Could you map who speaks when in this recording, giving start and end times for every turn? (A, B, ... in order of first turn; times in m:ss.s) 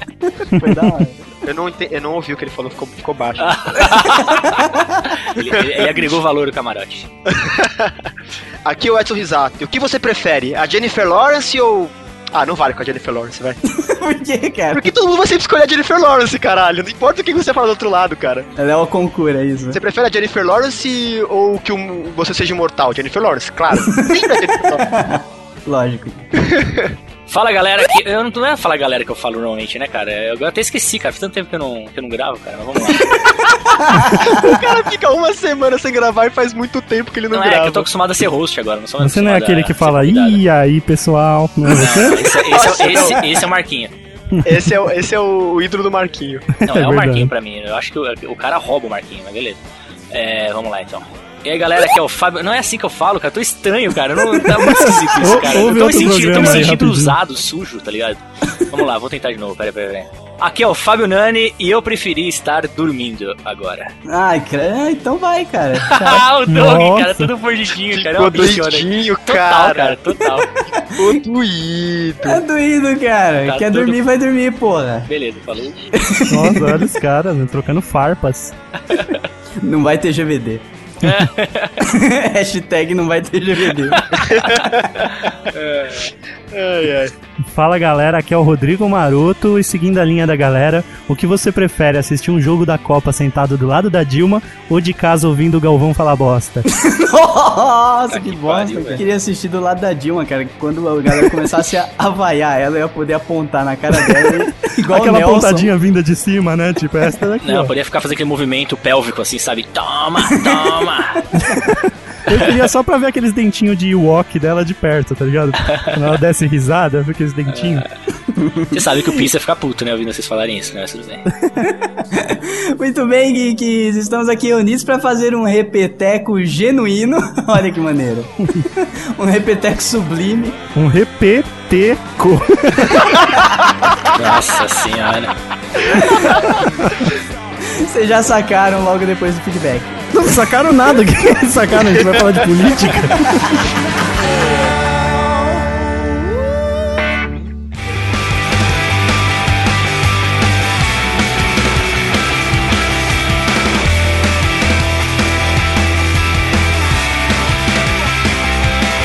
0:00.2-0:01.3 A
0:00.5-0:00.9 B
0:01.4-0:04.0 C
0:03.4-0:07.1 D
0:04.2-0:05.1 A
0:05.5-0:06.0 C
0:07.3-0:07.9 C
0:08.6-0:13.6 C
0:13.7-0:14.9 A
0:14.7-0:18.5 C
0:18.6-0:19.8 A
0:19.7-0:25.0 C
0:23.8-0:26.3 A
0:26.4-0:26.9 C
0:27.3-0:33.3 D
0:33.7-0:34.6 A
0:34.2-0:37.9 C
0:37.3-0:40.4 D
0:39.0-0:42.3 B
0:41.7-0:43.9 D
0:42.4-0:43.3 C
0:44.3-0:44.8 B
0:44.4-0:46.4 C
0:46.6-1:03.9 D
0:46.7-0:47.3 B
0:54.9-0:57.1 B
1:04.0-1:06.2 A
1:05.8-1:10.5 D
1:06.5-1:07.3 B
1:07.9-1:10.0 C
1:10.7-1:11.1 A
1:10.9-1:12.4 C
1:12.2-1:15.1 A
1:13.4-1:14.0 D
1:15.1-1:15.9 D
1:15.9-1:16.8 A
1:16.3-1:18.5 B
1:18.9-1:19.2 D
1:19.6-1:20.6 A
1:21.0-1:21.9 D
1:21.8-1:24.1 A
1:23.8-1:24.6 D
1:24.2-1:27.1 C
1:27.5-1:36.6 B
1:36.7-1:45.7 A
1:38.1-1:39.0 D
1:44.9-1:47.7 B
1:47.4-1:51.2 D
1:51.3-1:57.8 B
1:52.3-1:52.7 D
1:55.7-1:56.2 D
1:57.5-1:57.8 D
1:58.3-1:58.8 A
1:58.7-2:01.3 D
2:01.6-2:10.6 A
2:10.8-2:13.4 B
2:14.1-2:15.3 D
2:15.9-2:16.2 B
2:17.6-2:20.0 A
2:20.1-2:23.7 B